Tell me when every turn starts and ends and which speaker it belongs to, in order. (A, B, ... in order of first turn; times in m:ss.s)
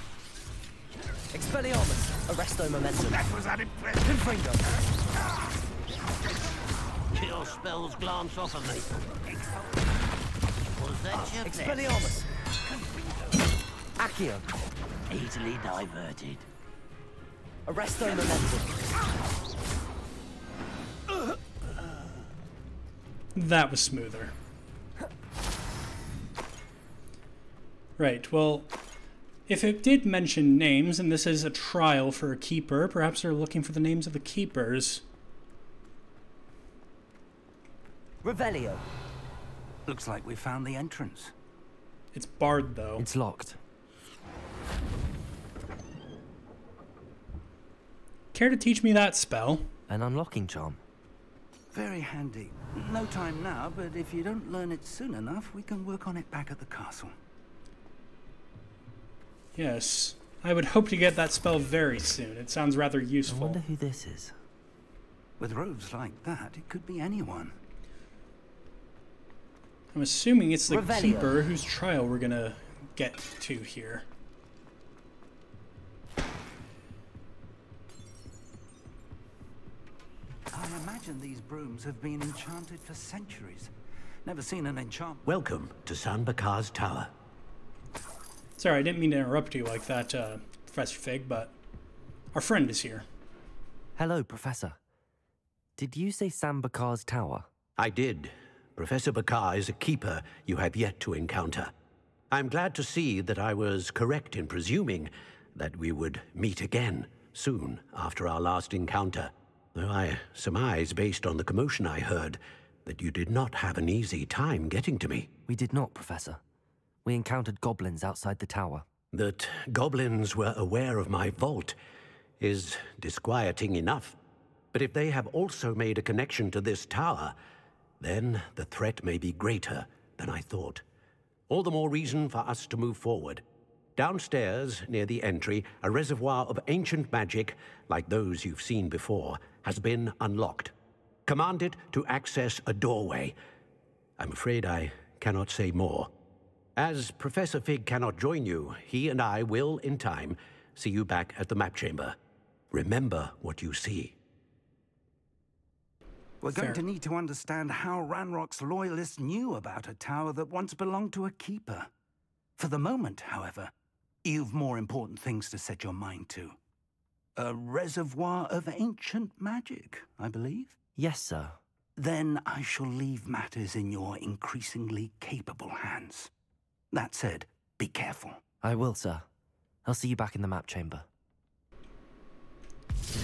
0:01.3-0:03.3 A
0:04.0-0:04.8 A
0:07.1-0:09.6 B
0:10.8-0:12.0 B
0:11.2-0:12.3 A
0:12.7-0:13.4 B
0:14.0-0:14.4 A
0:15.1-0:16.4 B
0:17.7-0:18.7 A
0:23.4-0:24.3 C
0:28.0-0:28.7 C
0:29.5-0:35.0 C
0:38.2-0:38.8 A
0:39.9-0:41.3 D
0:42.1-0:43.1 C
0:43.0-0:43.6 E
0:48.3-0:49.7 C
0:49.9-0:50.8 E
0:51.7-0:57.2 D
0:59.6-1:03.6 C
1:03.3-1:04.4 E
1:05.4-1:07.6 D
1:09.9-1:14.1 C
1:10.7-1:11.3 A
1:20.5-1:23.7 D
1:24.2-1:25.3 D
1:25.3-1:27.1 F
1:28.6-1:31.6 C
1:32.3-1:33.1 C
1:34.0-1:34.8 E
1:35.8-1:37.5 E
1:37.8-1:41.7 F
1:42.3-1:55.3 F
1:55.5-1:56.4 E
1:57.0-1:58.9 E
1:59.1-2:01.8 F
2:02.4-2:04.2 F
2:04.7-2:07.4 F
2:08.0-2:10.8 F
2:11.5-2:13.4 F
2:14.0-2:20.7 F
2:21.3-2:23.4 F
2:24.2-2:26.1 F
2:26.8-2:32.2 F
2:32.7-2:34.2 F
2:36.4-2:41.9 D
2:36.5-2:36.8 C
2:42.6-2:43.7 D
2:44.2-2:46.6 D
2:47.4-2:50.8 D
2:51.0-2:51.6 E
2:52.0-2:56.3 D
2:56.9-2:58.4 D
2:58.6-2:59.3 E
2:59.8-3:01.1 E